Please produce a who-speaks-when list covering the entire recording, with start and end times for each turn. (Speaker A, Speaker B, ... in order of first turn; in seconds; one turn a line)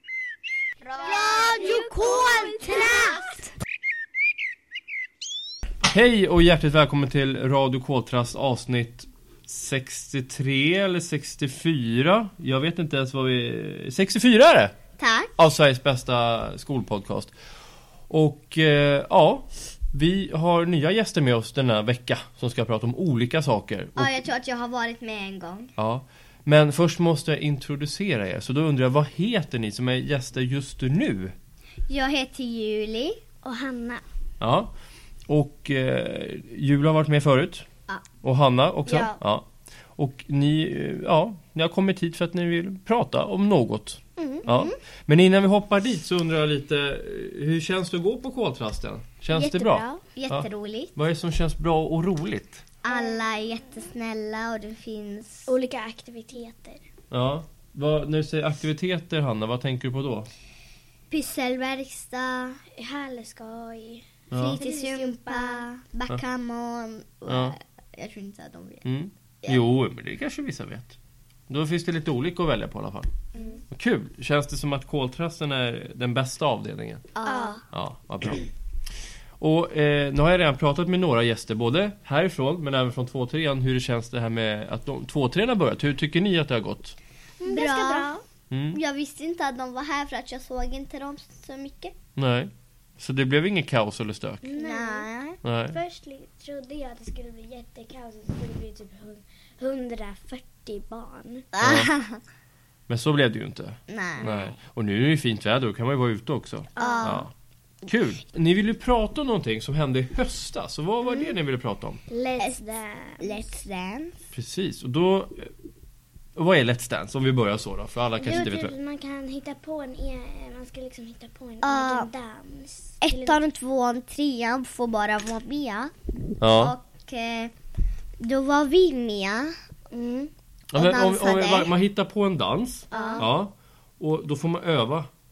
Speaker A: 0.8-3.5
Speaker B: 0.9-3.4
Speaker C: 5.8-14.7
Speaker A: 15.0-15.3
Speaker C: 15.4-17.3
Speaker C: 18.1-24.1
Speaker A: 24.0-25.7
Speaker C: 25.8-31.4
Speaker A: 31.9-33.2
Speaker B: 33.4-34.0
Speaker C: 34.4-34.7
Speaker C: 35.3-37.7
Speaker C: 38.2-52.6
Speaker B: 38.9-39.2
Speaker B: 44.2-44.6
Speaker A: 44.5-44.7
Speaker B: 49.3-50.0
Speaker A: 50.1-51.0
Speaker A: 52.8-55.5
Speaker B: 52.9-53.2
Speaker B: 55.5-56.8
Speaker C: 57.1-60.3
Speaker A: 61.1-62.6
Speaker B: 62.8-65.7
Speaker C: 64.3-64.6
Speaker A: 64.3-68.8
Speaker C: 67.3-67.5
Speaker C: 68.8-71.0
Speaker C: 71.5-73.1
Speaker B: 73.3-73.6
Speaker C: 73.7-77.1
Speaker A: 77.1-77.6
Speaker B: 77.2-77.6
Speaker C: 77.7-78.5
Speaker C: 79.4-87.0
Speaker B: 87.4-88.2
Speaker A: 87.5-88.1
Speaker C: 88.5-88.8
Speaker A: 88.7-92.0
Speaker C: 92.2-94.5
Speaker B: 94.4-95.1
Speaker A: 94.6-95.4
Speaker C: 95.4-95.8
Speaker B: 95.7-101.5
Speaker A: 101.5-102.2
Speaker C: 101.6-101.9
Speaker C: 102.9-107.3
Speaker A: 103.9-104.3
Speaker B: 104.2-104.5
Speaker B: 106.8-107.3
Speaker A: 106.8-107.3
Speaker C: 107.8-112.0
Speaker B: 111.0-111.3
Speaker B: 112.1-113.6
Speaker A: 112.4-112.6
Speaker A: 113.2-114.3
Speaker C: 114.3-115.5
Speaker C: 116.3-118.8
Speaker B: 118.2-123.4
Speaker A: 121.6-122.1
Speaker A: 123.0-127.5
Speaker C: 126.4-126.8
Speaker A: 128.2-129.6
Speaker B: 129.9-130.3
Speaker C: 130.7-135.1
Speaker A: 130.8-131.7
Speaker A: 132.9-133.3
Speaker B: 132.9-133.3